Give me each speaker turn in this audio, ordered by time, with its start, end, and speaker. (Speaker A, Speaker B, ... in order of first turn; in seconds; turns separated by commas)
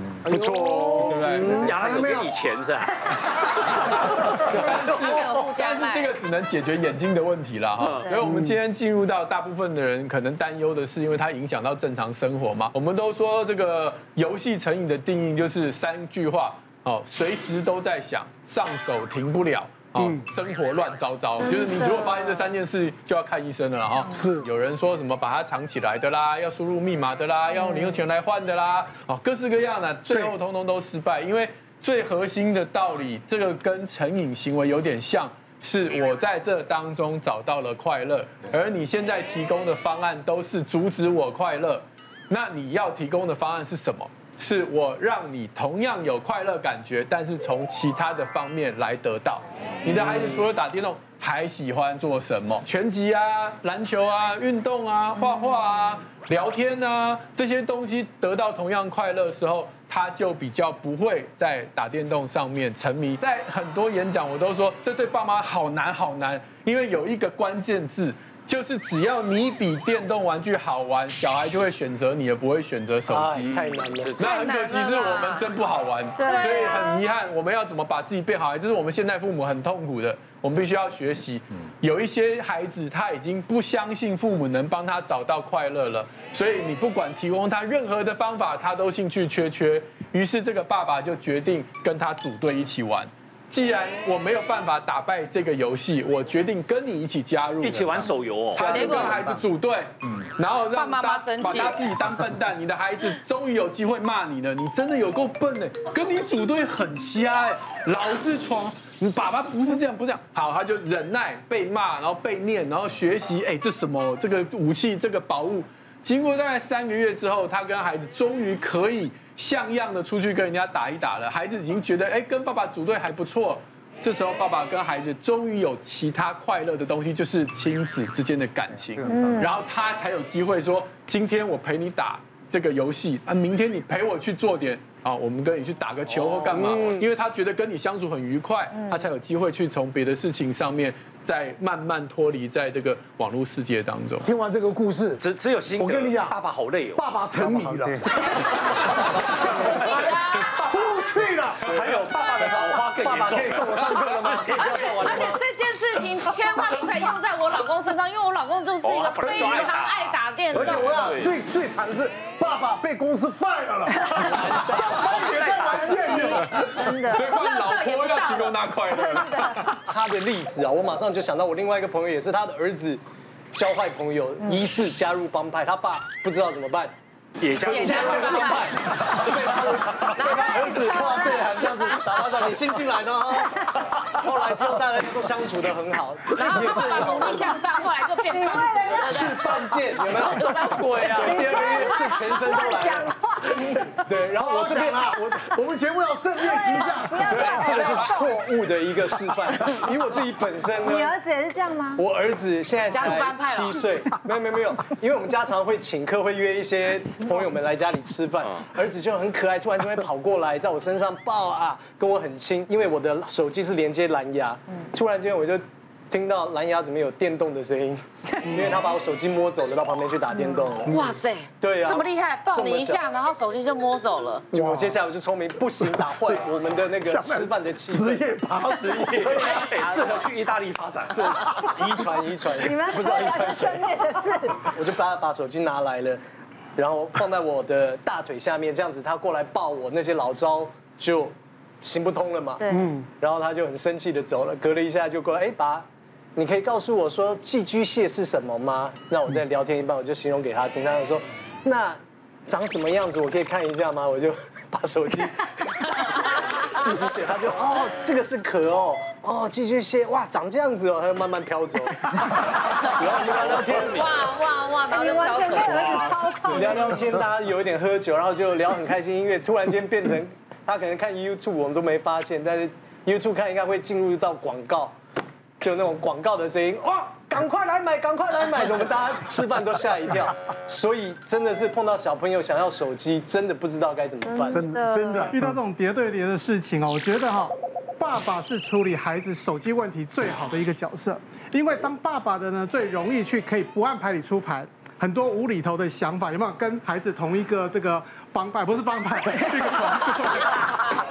Speaker A: 0.2-2.3, Speaker B: 0.3-5.3, Speaker C: 0.9-1.6, Speaker C: 3.6-73.6, Speaker D: 5.0-6.1, Speaker B: 7.8-8.1, Speaker A: 8.2-8.6, Speaker E: 21.4-22.5, Speaker A: 24.1-24.5, Speaker E: 27.5-28.0, Speaker F: 73.0-74.2, Speaker B: 73.6-74.4, Speaker C: 74.2-144.3, Speaker D: 74.2-75.5, Speaker E: 76.2-77.0, Speaker D: 76.3-76.8, Speaker B: 97.6-98.8, Speaker F: 98.5-99.4, Speaker D: 98.6-99.1, Speaker D: 100.7-101.8, Speaker E: 129.0-129.5, Speaker B: 136.1-136.9, Speaker F: 136.7-137.1, Speaker E: 138.7-139.1, Speaker A: 144.2-145.2, Speaker B: 145.2-147.0, Speaker A: 145.8-146.3, Speaker A: 146.9-151.8, Speaker B: 148.8-149.7, Speaker D: 149.6-150.6, Speaker B: 151.7-155.2, Speaker F: 152.9-155.4, Speaker D: 154.5-160.9, Speaker B: 158.8-161.3, Speaker A: 160.5-166.5, Speaker B: 164.2-166.3, Speaker F: 164.3-165.2, Speaker E: 165.8-167.4, Speaker C: 166.5-169.8, Speaker D: 167.2-168.6, Speaker E: 168.9-169.6, Speaker F: 169.8-173.0, Speaker F: 173.5-176.9, Speaker B: 177.4-178.6, Speaker F: 177.6-187.6, Speaker D: 177.7-178.7, Speaker C: 179.2-180.1, Speaker D: 180.1-182.1, Speaker E: 180.7-181.6, Speaker D: 186.3-191.7, Speaker E: 188.2-190.2, Speaker F: 188.8-193.1, Speaker B: 190.8-191.1, Speaker E: 191.0-193.9, Speaker F: 194.0-195.6, Speaker A: 194.3-197.7, Speaker E: 196.4-198.4, Speaker F: 197.3-201.1, Speaker E: 200.8-202.0, Speaker F: 202.0-221.0, Speaker D: 202.9-204.0, Speaker A: 218.4-218.8, Speaker A: 220.9-221.1, Speaker D: 220.9-224.5, Speaker F: 221.6-223.0, Speaker F: 224.5-228.2, Speaker A: 224.5-225.0, Speaker A: 225.8-229.5, Speaker B: 228.7-231.4, Speaker F: 229.2-229.7, Speaker F: 231.1-233.9, Speaker E: 232.6-234.6, Speaker F: 234.6-236.2, Speaker F: 236.8-264.2, Speaker E: 242.6-242.9, Speaker A: 242.7-243.0, Speaker B: 263.2-264.1, Speaker D: 263.7-266.1, Speaker E: 264.9-267.1, Speaker F: 265.5-274.9, Speaker B: 265.7-266.1, Speaker F: 275.6-284.6, Speaker E: 284.2-285.3, Speaker A: 284.5-285.5, Speaker G: 285.3-300.7